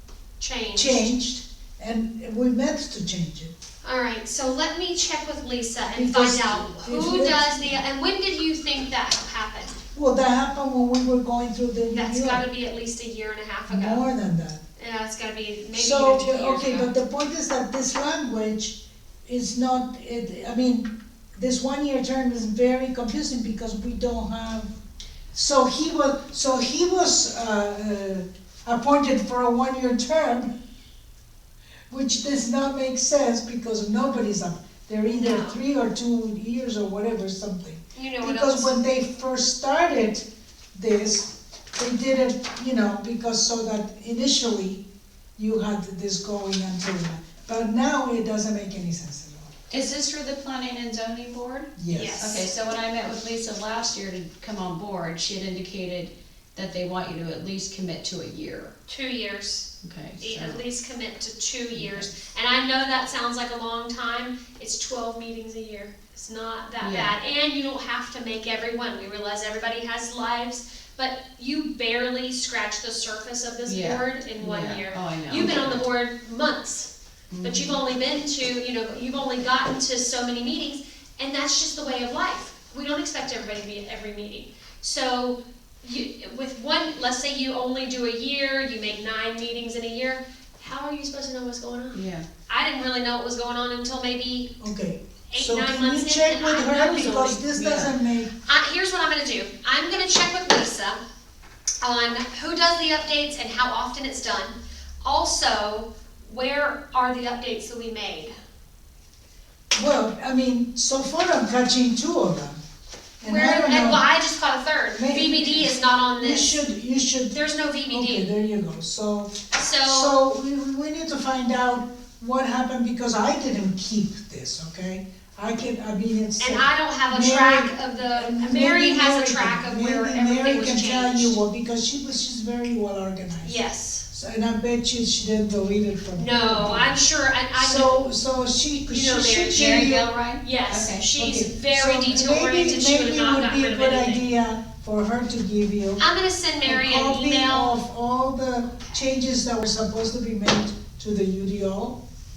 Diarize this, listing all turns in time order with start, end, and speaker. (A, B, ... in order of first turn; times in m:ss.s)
0:00.4-0:01.1 A
0:00.7-0:03.5 B
0:03.8-0:09.8 A
0:05.9-0:07.8 B
0:09.9-0:12.4 B
0:11.9-0:14.1 A
0:13.7-0:14.6 B
0:14.8-0:16.9 A
0:15.7-0:24.7 B
0:25.3-0:30.5 B
0:31.9-0:44.8 B
0:35.0-0:35.6 A
0:37.9-0:38.8 A
0:45.4-0:49.5 B
0:49.7-0:58.7 C
0:51.8-0:52.2 B
0:51.9-0:52.4 A
0:58.9-1:16.9 A
0:59.8-1:00.6 C
1:01.7-1:02.0 C
1:06.8-1:07.1 C
1:13.6-1:15.8 C
1:17.3-1:17.8 C
1:17.4-1:34.5 A
1:31.9-1:32.2 C
1:34.6-1:38.3 B
1:35.3-1:37.5 A
1:37.5-1:37.9 C
1:38.4-1:41.0 A
1:41.8-1:48.3 A
1:49.7-1:52.6 B
1:53.2-1:54.0 B
1:53.2-1:56.6 A
1:55.0-2:17.0 B
1:57.3-1:58.3 A
1:59.5-2:00.2 A
2:06.4-2:11.4 A
2:13.4-2:14.0 A
2:16.1-2:18.0 A
2:17.5-2:20.1 B
2:18.9-2:24.3 A
2:19.5-2:21.0 C
2:21.2-2:26.0 B
2:26.0-2:27.8 A
2:26.6-2:32.0 B